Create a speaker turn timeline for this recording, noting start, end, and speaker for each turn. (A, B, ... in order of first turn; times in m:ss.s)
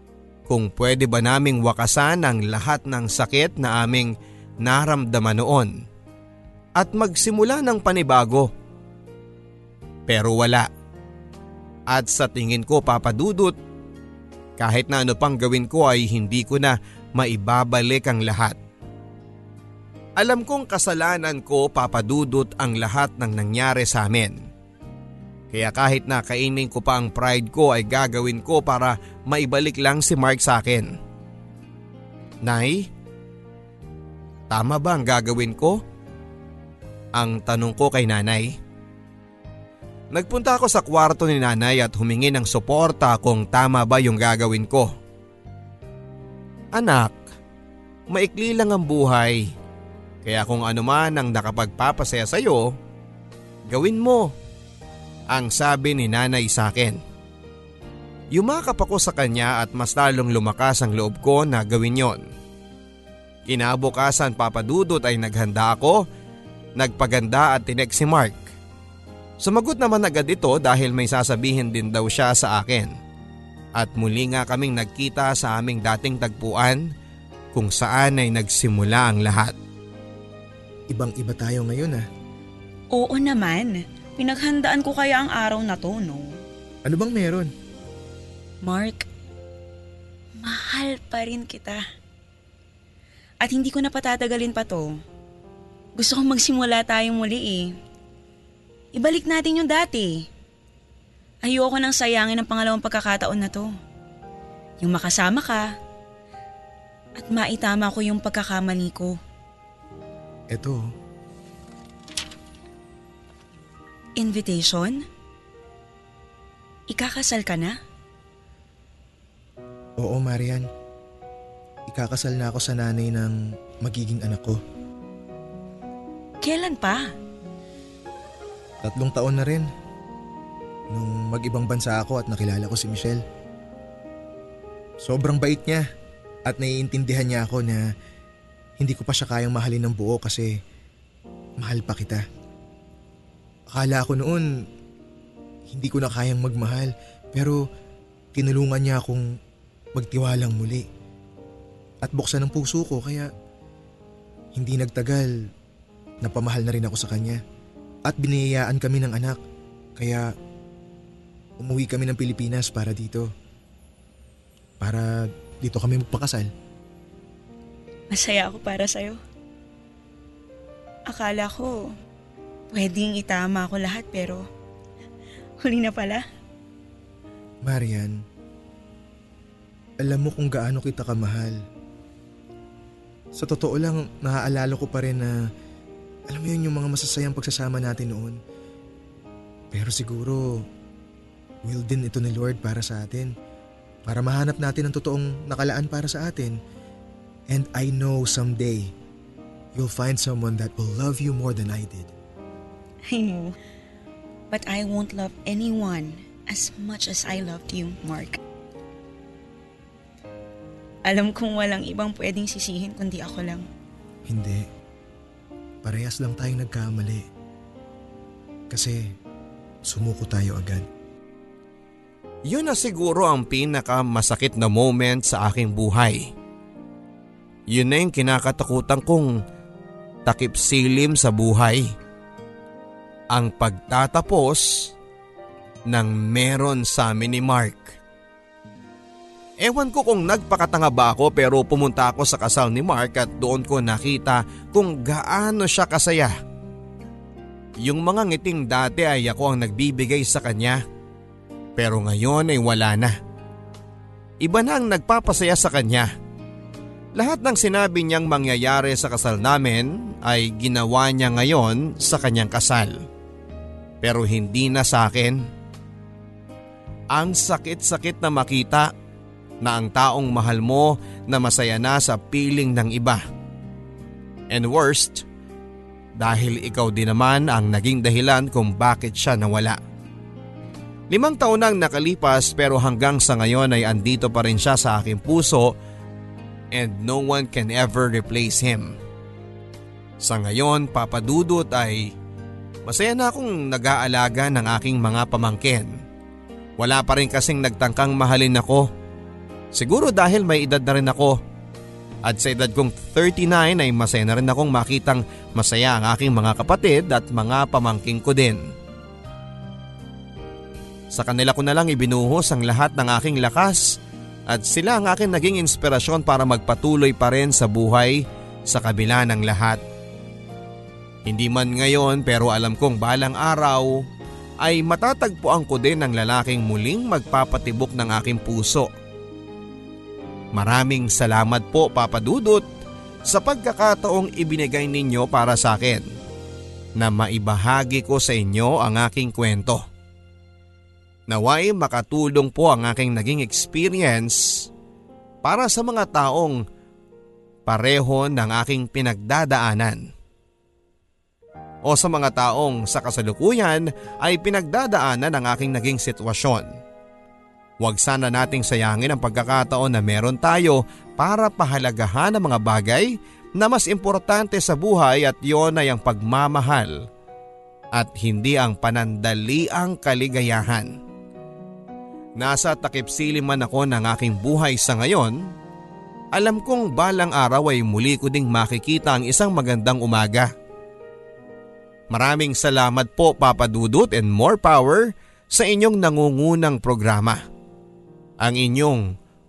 0:00.5-0:05.8 A
0:06.8-0:08.5 A
0:10.1-0:10.7 A
0:11.9-0:13.6 A
0:14.6-0:18.6 A
0:20.2-0:24.5 A
0:25.5-0:31.0 A
0:32.4-0:32.9 A
0:34.5-0:35.8 A
0:37.1-0:38.6 A
0:40.1-0:44.9 A
0:46.7-0:47.2 A
0:48.1-0:49.5 A
0:50.2-0:52.8 A
0:53.7-0:54.3 A
0:55.3-0:57.0 A
0:58.3-1:02.3 A
1:03.5-1:06.0 A
1:06.8-1:08.4 A
1:09.4-1:13.0 A
1:13.8-1:16.9 A
1:17.5-1:19.6 A
1:20.9-1:22.0 B
1:22.9-1:26.4 C
1:26.9-1:27.5 B
1:28.6-1:29.1 C
1:30.4-1:31.8 C
1:33.4-1:35.0 C
1:36.0-1:37.8 C
1:39.0-1:40.3 C
1:41.4-1:43.7 C
1:44.8-1:45.7 C
1:47.2-1:49.2 C
1:50.5-1:50.8 B
1:54.2-1:55.1 C
1:56.9-1:57.8 C
2:00.0-2:00.7 B
2:01.9-2:04.6 B
2:06.4-2:07.1 C
2:08.8-2:09.7 B
2:10.9-2:13.2 B
2:15.0-2:15.9 B
2:16.5-2:17.9 B
2:18.8-2:20.5 B
2:21.6-2:22.2 B
2:23.7-2:24.5 B
2:25.7-2:27.6 B
2:28.3-2:29.3 B
2:30.0-2:30.9 B
2:32.0-2:33.3 B
2:34.6-2:35.3 B
2:36.2-2:37.4 B
2:38.1-2:39.4 B
2:40.0-2:40.3 B
2:41.6-2:43.3 B
2:44.8-2:46.5 B
2:48.1-2:49.2 C
2:51.1-2:51.9 C
2:52.7-2:54.4 C
2:55.6-2:56.3 C
2:57.6-2:58.2 B
3:00.0-3:01.6 B
3:03.3-3:05.4 B
3:06.3-3:08.4 B
3:09.7-3:10.6 B
3:11.6-3:13.3 B
3:14.1-3:16.6 B
3:17.5-3:18.9 B
3:19.8-3:22.1 B
3:23.1-3:23.6 C
3:24.5-3:28.4 C
3:31.0-3:33.6 C
3:34.3-3:34.7 B
3:35.8-3:37.3 B
3:38.7-3:39.1 B
3:39.9-3:40.9 B
3:42.5-3:46.3 A
3:47.7-3:49.4 A
3:50.3-3:51.9 A
3:53.3-3:54.9 A
3:55.9-3:58.0 A
3:59.6-4:06.4 A
4:07.8-4:10.8 A
4:11.8-4:13.2 A
4:14.4-4:16.1 A
4:17.2-4:23.1 A
4:24.0-4:25.5 A
4:27.1-4:28.9 A
4:29.6-4:33.2 A
4:34.5-4:35.2 A
4:36.2-4:39.8 A
4:41.1-4:45.7 A
4:46.7-4:49.0 A
4:50.2-4:52.1 A
4:52.9-4:56.0 A
4:56.8-4:58.9 A
4:59.7-5:01.4 A
5:02.2-5:08.7 A
5:11.1-5:19.8 A
5:21.2-5:24.0 A
5:24.6-5:28.9 A
5:30.5-5:32.6 A
5:33.3-5:36.1 A
5:37.0-5:39.8 A
5:41.3-5:44.7 A
5:45.4-5:46.6 A
5:47.7-5:50.1 A
5:51.8-5:56.8 A
5:57.8-6:07.1 A
6:07.9-6:11.0 A
6:12.4-6:15.5 A
6:16.3-6:20.5 A
6:22.1-6:27.4 A
6:28.4-6:29.1 A